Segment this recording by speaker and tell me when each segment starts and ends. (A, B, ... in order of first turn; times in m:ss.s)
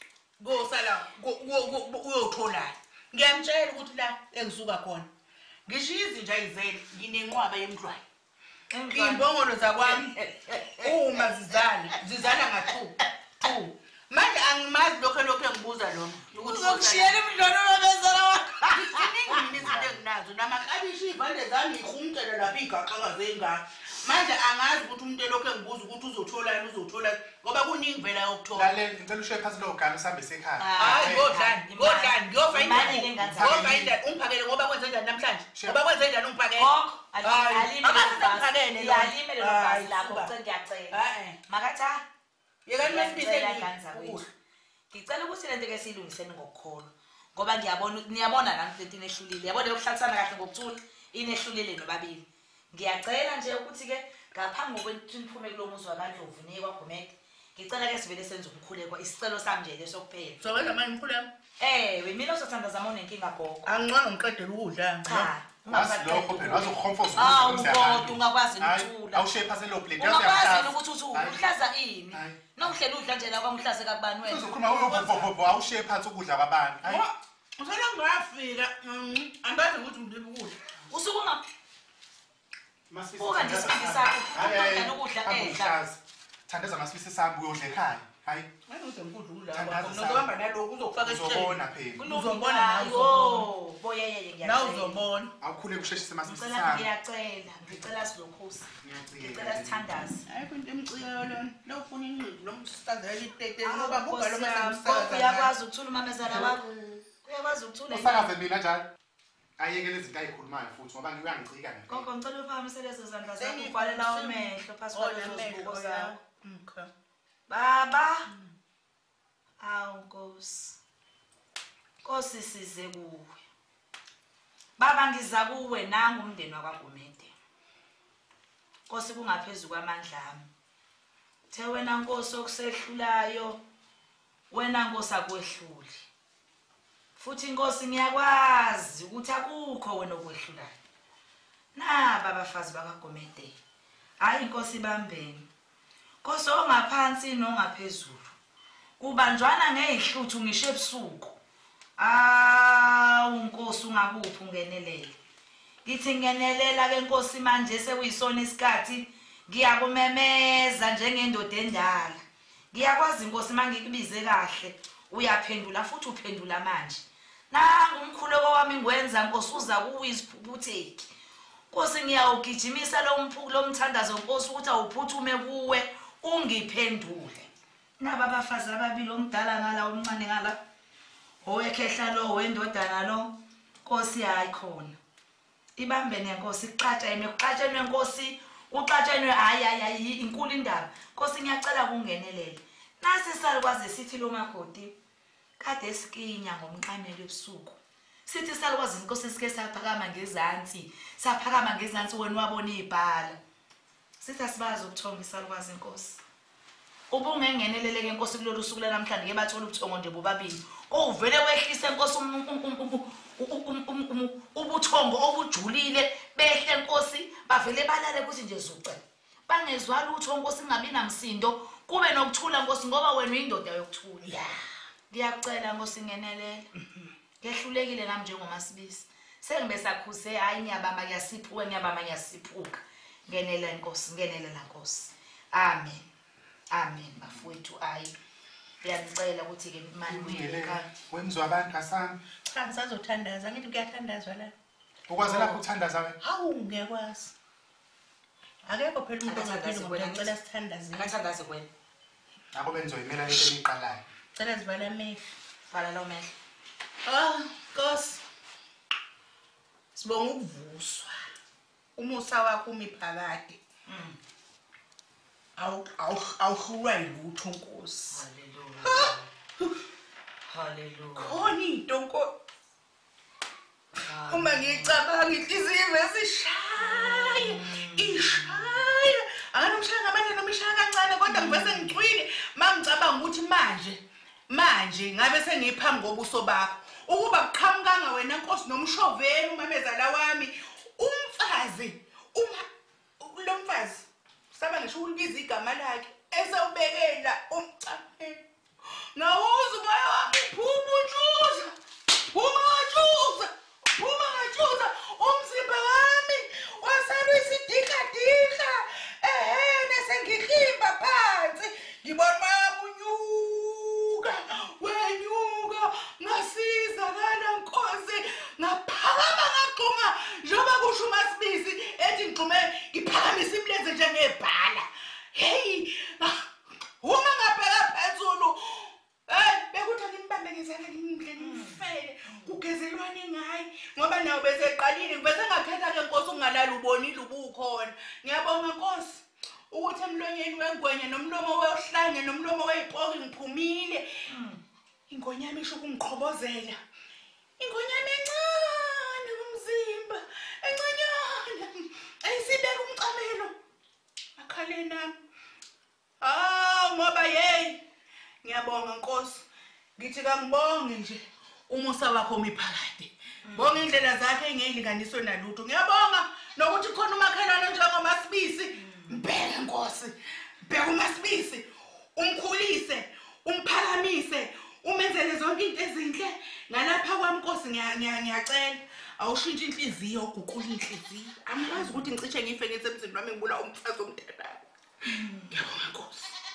0:00.4-0:05.1 A
0:05.7-0:08.0 A
0:08.7-0:09.3 B
0:08.9-0:10.1 A
0:09.8-0:10.9 B
0:10.8-0:17.2 A
0:16.3-0:19.4 B
0:18.7-0:28.7 A
0:19.5-0:20.0 C
0:28.5-0:31.3 C
0:30.6-0:33.7 B
0:30.8-0:36.7 A
0:33.2-0:33.9 C
0:35.6-0:35.8 C
0:36.6-0:42.0 B
0:37.2-0:40.3 A
0:40.9-0:41.4 A
0:42.6-0:44.3 A
0:42.8-0:44.2 B
0:44.9-1:00.7 B
1:00.4-1:01.3 A
1:01.6-1:03.7 B
1:03.6-1:05.3 A
1:05.0-1:09.2 B
1:05.7-1:11.5 C
1:10.0-1:15.3 B
1:12.1-1:12.7 C
1:14.2-1:17.0 C
1:16.8-1:20.5 A
1:20.9-1:21.4 B
1:22.9-1:28.5 C
1:23.2-1:25.8 B
1:28.7-1:33.5 A
1:29.5-1:30.3 C
1:31.0-1:32.0 C
1:31.9-1:35.0 B
1:34.4-1:35.3 A
1:35.4-1:36.9 C
1:36.2-1:40.2 B
1:38.8-1:39.8 C
1:40.3-1:45.5 A
1:43.6-1:46.6 B
1:46.2-1:47.0 C
1:47.2-1:48.3 B
1:47.9-1:48.9 C
1:49.6-1:52.0 C
1:51.9-1:56.1 B
1:53.4-1:56.9 A
1:57.5-1:58.3 B
1:59.6-2:00.8 B
2:02.0-2:03.4 B
2:04.8-2:07.3 B
2:08.9-2:10.5 B
2:11.5-2:13.6 B
2:14.5-2:16.0 B
2:17.2-2:20.8 B
2:21.7-2:23.5 B
2:24.2-2:25.5 B
2:26.2-2:28.3 B
2:29.0-2:31.4 B
2:32.0-2:35.2 B
2:35.8-2:51.1 B
2:51.7-3:00.6 B
3:01.4-3:05.0 B
3:05.8-3:15.0 B
3:15.6-3:23.4 B
3:24.2-3:26.2 B
3:27.1-3:44.4 B
3:44.2-3:44.6 A
3:45.1-3:46.7 B
3:47.4-3:56.0 B
3:56.7-3:58.1 B
3:58.8-4:00.9 B
4:00.1-4:02.2 C
4:02.4-4:04.5 A
4:05.1-4:06.2 C
4:05.2-4:05.6 B
4:06.2-4:07.3 A
4:08.6-4:11.1 A
4:09.2-4:10.3 B
4:10.9-4:11.7 B
4:12.5-4:14.0 C
4:14.3-4:15.2 A
4:15.7-4:16.3 B
4:17.0-4:18.2 A
4:19.9-4:21.2 A
4:22.0-4:23.6 A
4:23.8-4:24.2 B
4:25.6-4:28.2 A
4:28.1-4:29.3 B
4:28.8-4:29.7 A
4:30.5-4:31.5 B
4:31.2-4:32.3 A
4:34.0-4:35.0 B
4:34.3-4:52.6 A
4:36.8-4:38.9 B
4:41.3-4:42.0 B
4:53.2-5:01.7 A
5:02.3-5:26.4 A
5:27.0-5:44.1 A
5:31.4-5:32.5 B
5:44.2-5:44.6 B
5:45.1-5:46.8 A
5:47.6-5:53.5 A
5:54.4-5:55.1 A
5:56.2-5:57.8 A
5:58.4-5:59.4 A
6:00.0-6:24.6 A
6:03.4-6:03.9 B
6:08.8-6:09.2 B
6:21.7-6:22.0 B
6:25.1-6:25.5 B
6:25.5-6:26.3 A